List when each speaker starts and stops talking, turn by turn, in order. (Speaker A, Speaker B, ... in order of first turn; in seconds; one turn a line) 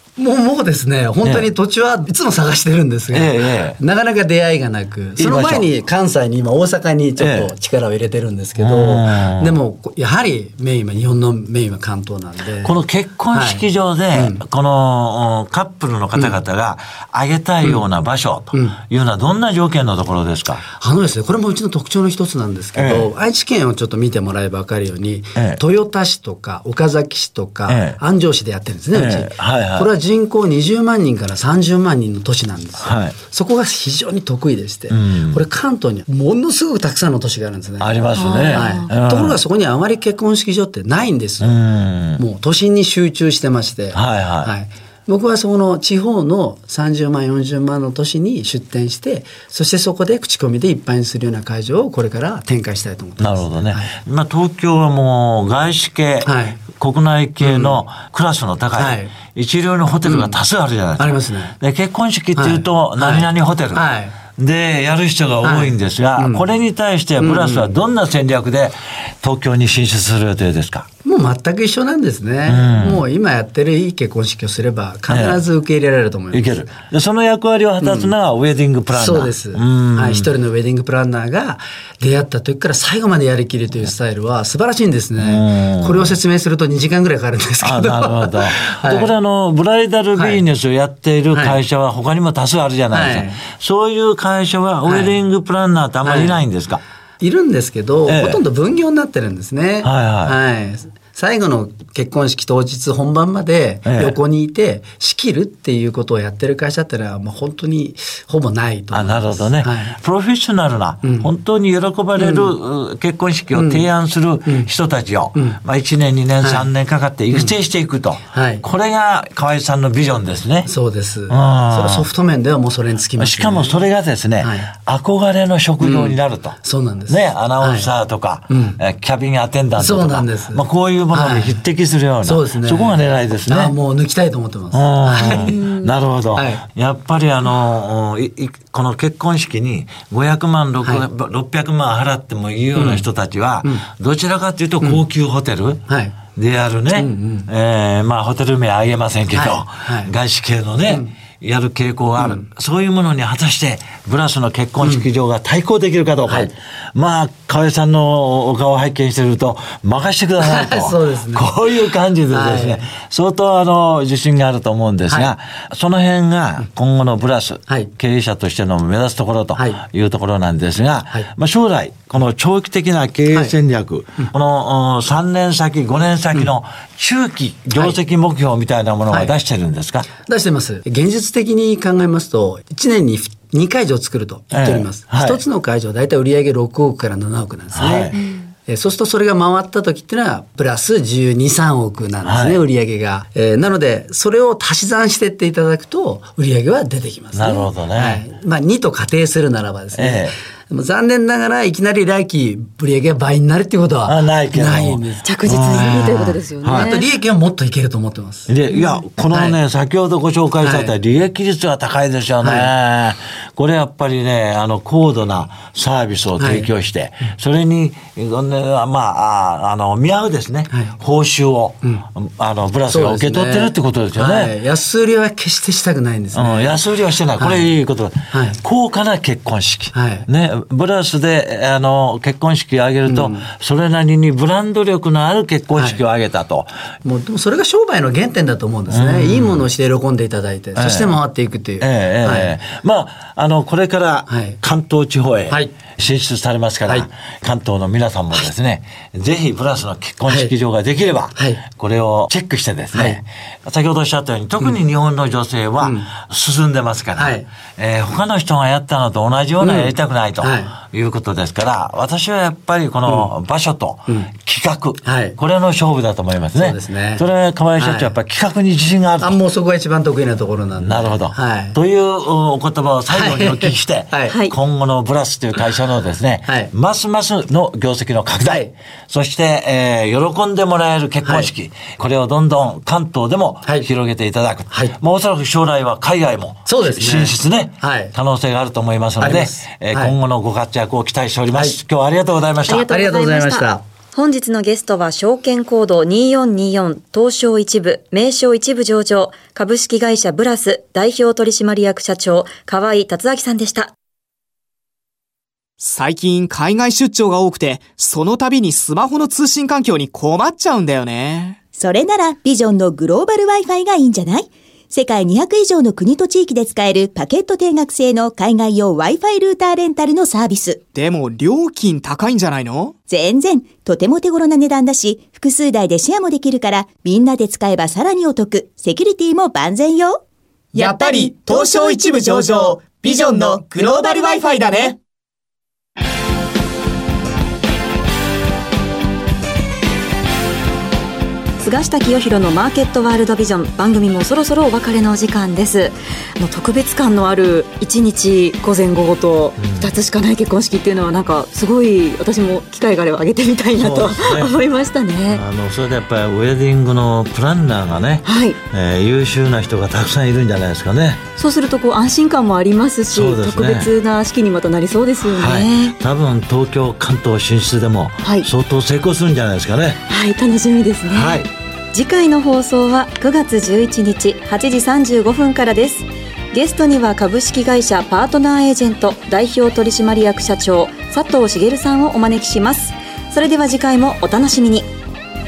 Speaker A: 0.2-12.8
Speaker B: 3.1-3.8
Speaker B: 5.2-5.7
Speaker B: 7.2-7.5
Speaker B: 8.6-9.6
Speaker B: 12.6-20.6
Speaker A: 13.3-14.4
Speaker A: 20.7-41.6
Speaker B: 22.8-23.1
Speaker B: 27.7-28.0
Speaker B: 28.9-29.9
Speaker B: 32.8-33.2
Speaker B: 34.9-35.4
Speaker B: 37.8-39.4
Speaker C: 38.1-38.9
Speaker B: 41.4-42.2
Speaker A: 42.2-54.0
Speaker B: 43.9-44.5
Speaker B: 53.2-70.9
Speaker A: 56.2-56.6
Speaker A: 57.4-57.8
Speaker A: 58.8-59.1
Speaker A: 60.1-60.4
Speaker A: 61.0-61.6
Speaker A: 62.4-64.2
Speaker A: 65.4-66.5
Speaker A: 67.2-67.8
Speaker A: 71.0-76.6
Speaker B: 72.5-73.0
Speaker B: 75.1-75.4
Speaker B: 76.3-80.3
Speaker A: 77.8-78.1
Speaker A: 78.9-89.1
Speaker B: 85.2-86.2
Speaker B: 87.6-96.8
Speaker A: 90.2-90.4
Speaker A: 91.3-91.6
Speaker A: 92.9-93.4
Speaker A: 94.8-95.1
Speaker A: 96.0-96.4
Speaker A: 97.2-110.0
Speaker B: 98.1-98.4
Speaker B: 99.8-100.3
Speaker B: 103.9-104.2
Speaker B: 108.9-120.7
Speaker A: 111.0-111.3
Speaker A: 112.2-112.5
Speaker A: 113.5-113.8
Speaker A: 116.4-116.7
Speaker A: 118.3-118.7
Speaker A: 120.7-123.8
Speaker B: 121.3-122.1
Speaker B: 123.2-133.8
Speaker A: 124.4-124.7
Speaker A: 125.8-127.9
Speaker A: 128.5-128.8
Speaker A: 129.8-131.6
Speaker A: 132.2-135.7
Speaker B: 134.7-180.1
Speaker C: 135.3-135.9
Speaker A: 136.3-136.6
Speaker A: 142.8-143.1
Speaker A: 145.9-146.2
Speaker A: 146.9-147.5
Speaker A: 149.3-150.1
Speaker A: 150.9-151.1
Speaker A: 152.2-152.5
Speaker A: 154.8-155.1
Speaker A: 160.4-161.5
Speaker A: 162.3-162.9
Speaker A: 169.6-169.8
Speaker A: 180.2-208.5
Speaker B: 184.5-185.4
Speaker B: 187.8-188.2
Speaker B: 192.2-192.6
Speaker B: 197.3-198.2
Speaker B: 199.9-200.3
Speaker B: 204.1-207.0
Speaker C: 205.2-207.1
Speaker B: 208.5-224.5
Speaker A: 209.3-209.6
Speaker A: 210.6-210.9
Speaker A: 212.4-212.7
Speaker A: 216.4-216.7
Speaker A: 220.7-221.0
Speaker A: 222.9-226.8
Speaker B: 226.3-236.7
Speaker A: 227.4-227.7
Speaker A: 228.3-228.6
Speaker A: 229.9-230.3
Speaker A: 233.1-233.5
Speaker A: 235.8-236.0
Speaker A: 237.0-242.6
Speaker B: 238.9-239.7
Speaker B: 240.8-241.2
Speaker B: 241.8-269.3
Speaker A: 244.3-244.6
Speaker A: 250.3-250.5
Speaker A: 251.4-251.6
Speaker A: 252.9-253.2
Speaker A: 255.8-256.1
Speaker A: 257.2-257.5
Speaker A: 259.6-260.8
Speaker A: 263.1-263.3
Speaker A: 265.0-265.4
Speaker A: 266.5-267.2
Speaker A: 267.8-268.1
Speaker A: 269.2-271.8
Speaker B: 270.8-292.9
Speaker A: 273.1-274.4
Speaker C: 274.3-274.5
Speaker A: 276.5-276.7
Speaker A: 278.4-278.7
Speaker A: 284.7-285.0
Speaker A: 286.7-288.1
Speaker A: 289.2-290.1
Speaker A: 291.5-291.8
Speaker C: 292.7-303.9
Speaker A: 292.8-293.8
Speaker D: 305.8-311.6
Speaker E: 311.8-320.8
Speaker D: 320.9-323.0
Speaker E: 323.1-330.2
Speaker D: 330.8-335.0
Speaker E: 330.8-331.3
Speaker C: 341.6-355.4
Speaker B: 349.6-349.9
Speaker B: 353.7-354.6
Speaker B: 355.3-361.2
Speaker C: 358.2-358.6
Speaker C: 361.4-366.0
Speaker B: 363.1-363.9
Speaker B: 365.2-370.0
Speaker C: 368.2-368.5
Speaker C: 370.1-371.4
Speaker B: 371.1-371.5
Speaker C: 371.9-384.9